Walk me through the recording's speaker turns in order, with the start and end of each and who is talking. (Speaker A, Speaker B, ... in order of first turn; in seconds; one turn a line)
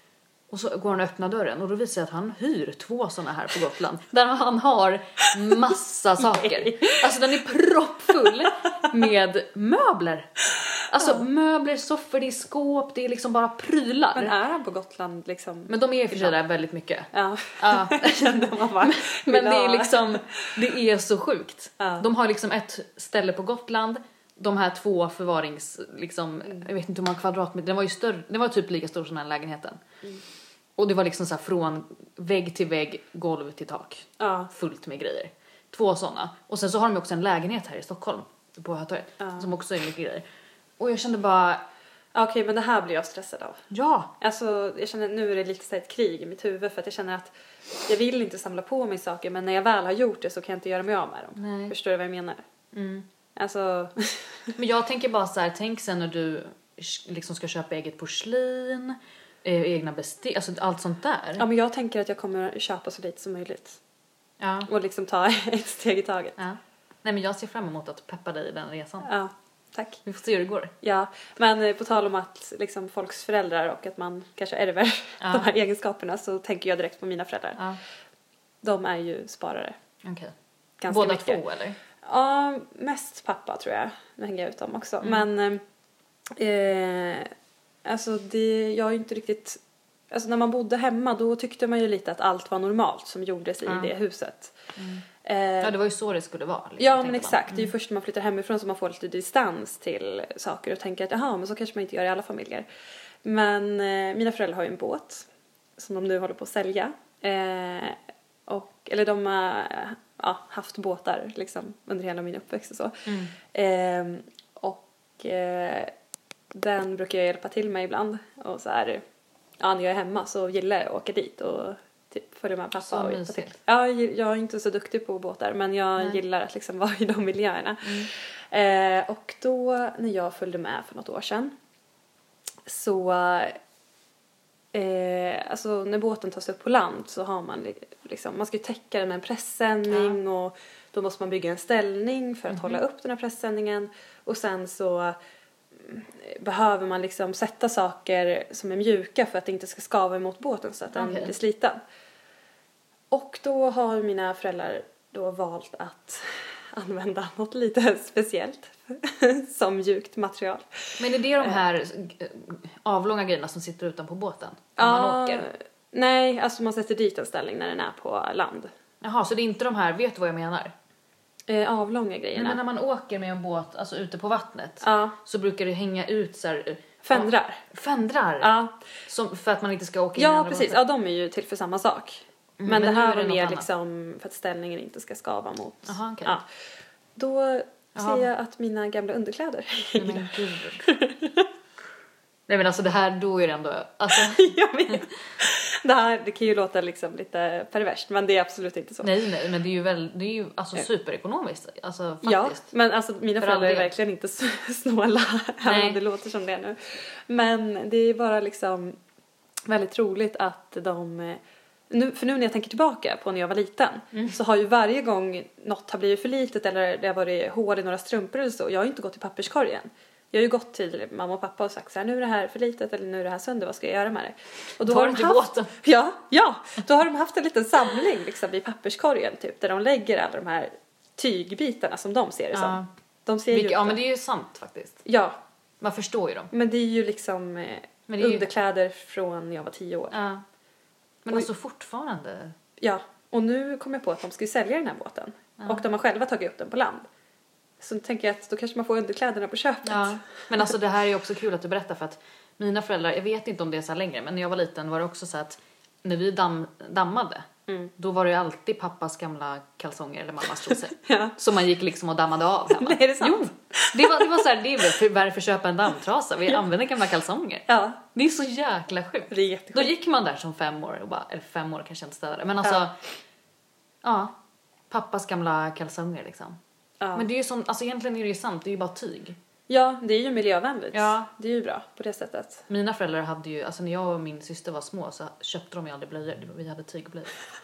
Speaker A: 0.5-10.3
Speaker B: 6.2-7.1
Speaker B: 8.2-8.9
Speaker A: 10.9-14.4
Speaker B: 14.1-16.4
Speaker A: 15.7-29.8
Speaker B: 17.1-20.6
Speaker B: 21.8-22.1
Speaker A: 30.8-40.2
Speaker B: 34.2-34.5
Speaker B: 39.2-39.4
Speaker A: 40.8-41.6
Speaker B: 42.1-43.6
Speaker A: 43.7-44.1
Speaker B: 44.2-47.3
Speaker B: 47.9-52.4
Speaker A: 51.4-51.7
Speaker A: 52.7-53.1
Speaker B: 53.4-54.5
Speaker A: 54.6-61.4
Speaker B: 61.4-63.8
Speaker A: 64.4-64.7
Speaker B: 64.7-66.4
Speaker A: 66.4-69.1
Speaker B: 69.0-70.0
Speaker A: 70.0-70.7
Speaker B: 70.8-77.6
Speaker A: 75.2-75.5
Speaker B: 78.6-79.8
Speaker A: 80.0-80.3
Speaker B: 80.8-81.4
Speaker A: 80.9-81.8
Speaker B: 82.0-85.6
Speaker B: 86.4-87.3
Speaker B: 87.8-89.6
Speaker B: 90.1-94.6
Speaker A: 93.6-93.9
Speaker A: 94.8-95.0
Speaker B: 95.2-95.7
Speaker A: 95.6-97.7
Speaker B: 96.8-102.7
Speaker B: 103.2-115.9
Speaker A: 113.1-113.3
Speaker B: 116.5-119.0
Speaker B: 119.6-131.5
Speaker A: 122.8-123.6
Speaker A: 127.8-128.1
Speaker B: 132.7-133.6
Speaker B: 134.7-145.2
Speaker A: 139.9-140.2
Speaker A: 142.5-142.8
Speaker B: 145.8-151.8
Speaker A: 150.9-151.3
Speaker B: 153.1-161.6
Speaker A: 161.0-165.5
Speaker B: 164.8-168.7
Speaker A: 169.0-170.7
Speaker B: 171.5-172.6
Speaker A: 172.3-178.5
Speaker B: 174.8-175.2
Speaker B: 177.0-177.6
Speaker B: 178.4-178.8
Speaker A: 179.1-180.8
Speaker B: 180.2-186.4
Speaker A: 182.6-183.7
Speaker A: 185.9-186.4
Speaker B: 187.2-191.5
Speaker A: 187.9-188.3
Speaker A: 189.9-190.9
Speaker A: 192.5-195.0
Speaker B: 194.1-199.2
Speaker A: 199.0-202.6
Speaker B: 202.2-209.0
Speaker A: 203.4-203.9
Speaker A: 205.6-206.0
Speaker B: 209.7-234.0
Speaker A: 224.8-225.7
Speaker A: 232.5-232.9
Speaker A: 233.5-235.0
Speaker B: 235.1-235.4
Speaker A: 235.8-236.5
Speaker B: 236.5-240.2
Speaker A: 238.1-238.4
Speaker A: 240.1-240.4
Speaker A: 241.2-242.6
Speaker B: 242.8-247.1
Speaker B: 247.8-250.5
Speaker A: 249.8-273.0
Speaker B: 260.7-261.4
Speaker B: 262.7-264.4
Speaker B: 267.7-268.0
Speaker B: 269.3-269.9
Speaker A: 274.0-274.3
Speaker A: 274.9-276.6
Speaker B: 277.0-277.3
Speaker A: 277.1-279.4
Speaker B: 279.7-282.6
Speaker A: 280.9-281.3
Speaker A: 282.7-287.4